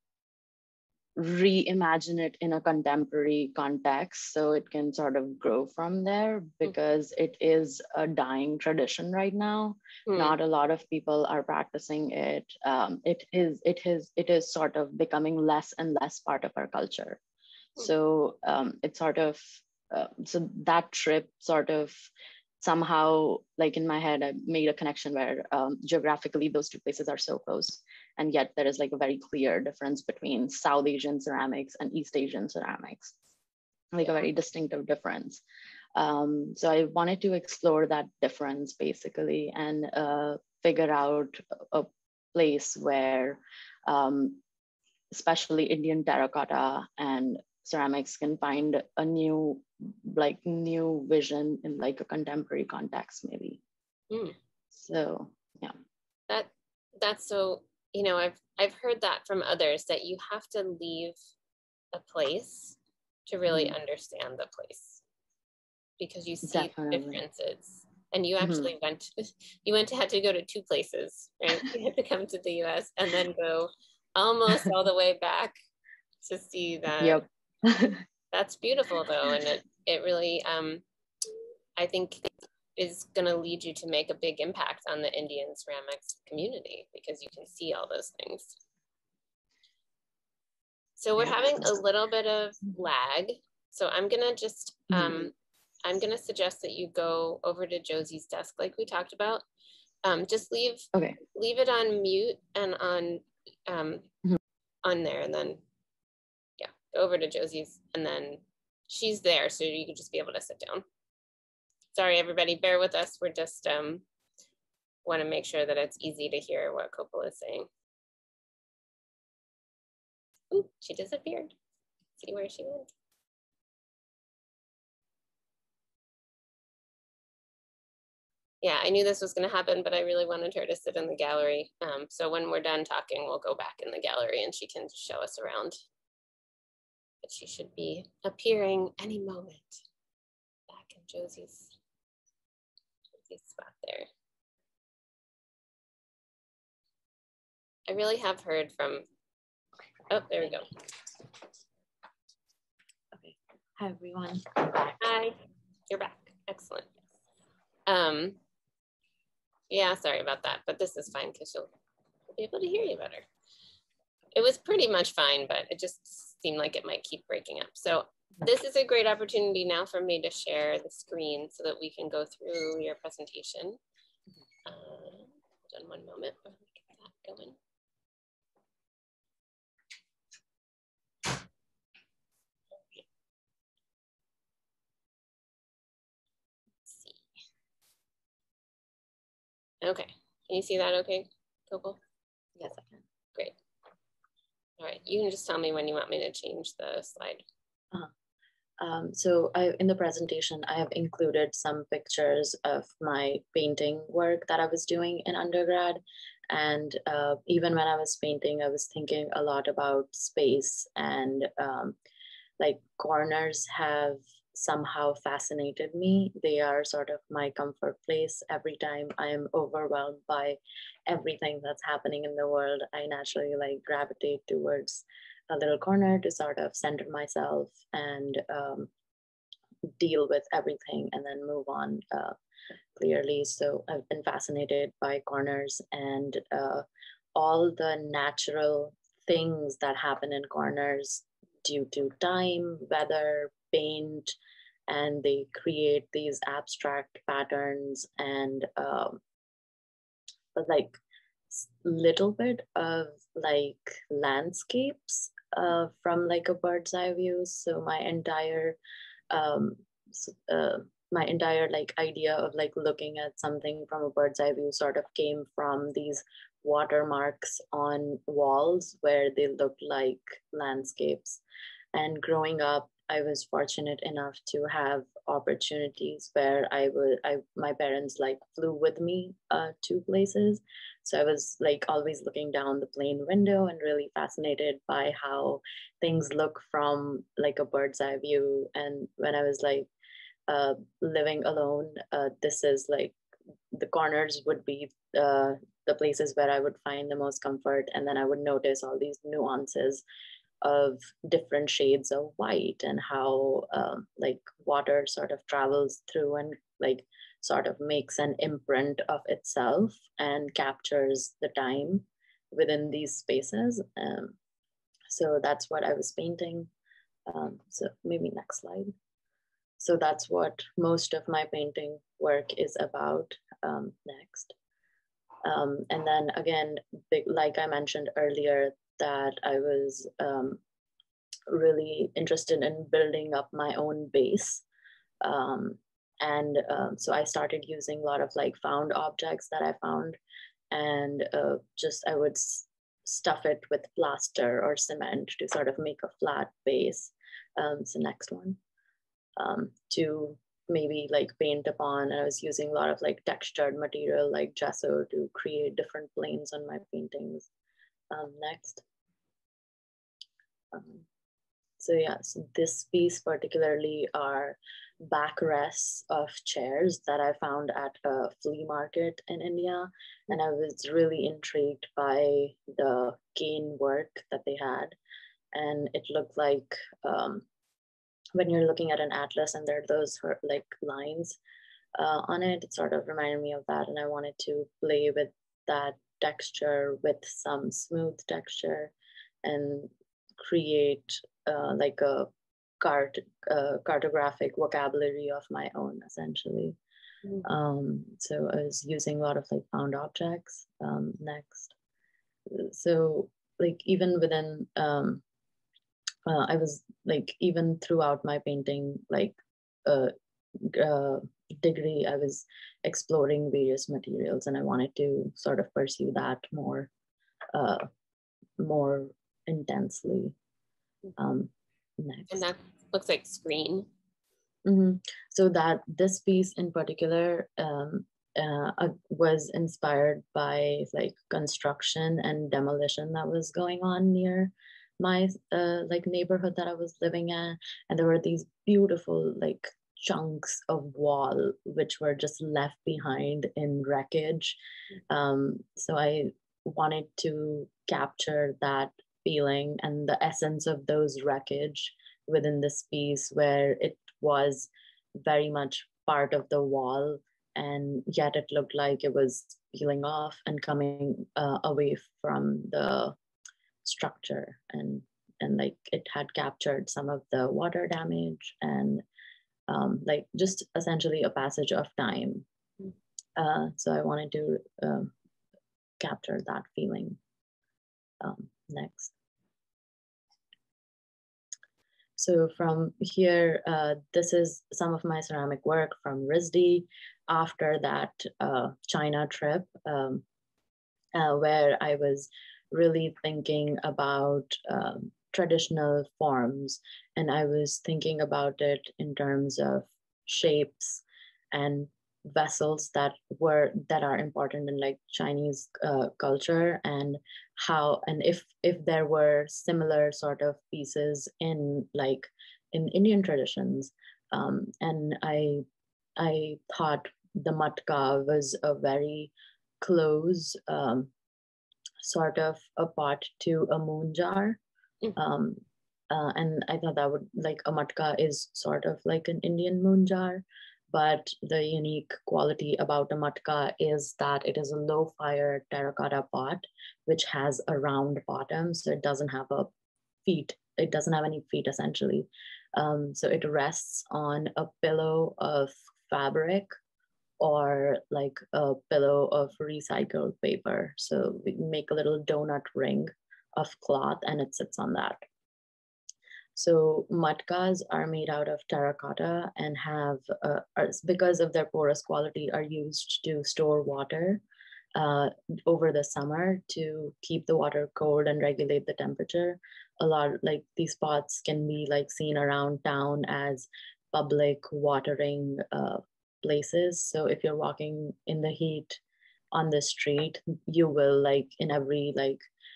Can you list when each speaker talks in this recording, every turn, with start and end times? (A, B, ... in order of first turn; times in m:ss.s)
0:01.2-0:17.2 A
0:10.1-0:10.3 B
0:17.8-0:22.0 A
0:22.6-0:33.2 A
0:33.9-0:35.4 A
0:36.0-0:44.4 A
0:45.1-0:53.6 A
0:54.1-0:54.4 B
0:54.7-0:55.8 A
0:56.3-1:01.2 B
1:01.9-1:05.0 B
1:03.5-1:03.8 A
1:06.0-1:15.5 B
1:06.4-1:07.2 A
1:08.4-1:08.7 A
1:16.2-1:17.2 B
1:17.0-1:18.0 A
1:18.3-1:20.8 B
1:21.8-1:28.6 B
1:31.0-1:35.3 B
1:31.2-1:31.7 A
1:34.9-1:35.3 A
1:35.8-1:39.4 B
1:40.0-1:44.1 B
1:40.9-1:41.2 A
1:44.8-1:45.6 B
1:46.6-1:50.8 B
1:51.9-1:54.0 B
1:55.0-1:57.7 B
2:00.5-2:01.5 B
2:02.2-2:02.9 B
2:08.6-2:15.8 B
2:17.2-2:19.8 B
2:20.7-2:21.8 B
2:23.2-2:24.1 B
2:27.9-2:29.0 B
2:30.1-2:30.7 B
2:33.1-2:35.1 A
2:35.0-2:35.4 B
2:35.9-2:36.9 B
2:37.9-2:38.4 B
2:39.7-2:41.7 B
2:42.4-2:43.3 B
2:44.4-2:53.8 B
2:54.7-2:57.6 B
3:06.9-3:07.2 B
3:09.8-3:12.0 B
3:12.6-3:13.0 A
3:14.8-3:17.5 B
3:18.8-3:32.0 A
3:32.6-3:48.9 A
3:50.0-3:52.4 A
3:53.0-4:04.3 A
4:04.9-4:09.2 A
4:10.6-4:11.0 A
4:11.5-4:18.8 A
4:19.3-4:31.4 A
4:31.9-4:49.9 A
4:50.5-4:53.2 A
4:53.7-5:00.0 A
5:00.6-5:14.4 A
5:15.1-5:16.7 A
5:17.3-5:18.9 A
5:19.8-5:24.6 A
5:25.4-5:30.6 A
5:31.5-5:34.6 A
5:35.2-5:40.2 A
5:40.7-5:48.6 A
5:49.4-5:57.5 A
5:58.1-5:58.8 A
6:00.7-6:01.1 A
6:01.8-6:14.9 A
6:15.5-6:17.5 A
6:18.4-6:21.4 A
6:22.0-6:28.9 A
6:29.4-6:36.8 A
6:37.4-6:41.7 A
6:42.5-6:45.2 A
6:46.3-6:56.9 A
6:57.5-6:57.8 A
6:58.6-7:00.4 A
7:01.2-7:02.5 A
7:02.3-7:03.9 B
7:04.6-7:24.6 A
7:25.1-7:43.2 A
7:43.8-7:49.0 A
7:49.7-7:52.5 A
7:53.4-7:55.1 A
7:56.0-7:57.2 A
7:58.2-7:59.1 A
8:02.2-8:10.2 A
8:11.1-8:35.6 A
8:36.2-8:41.1 A
8:42.0-8:44.6 A
8:45.2-8:59.7 A
9:00.2-9:06.7 A
9:07.4-9:15.2 A
9:16.6-9:24.4 A
9:25.0-9:39.0 A
9:39.5-9:42.4 A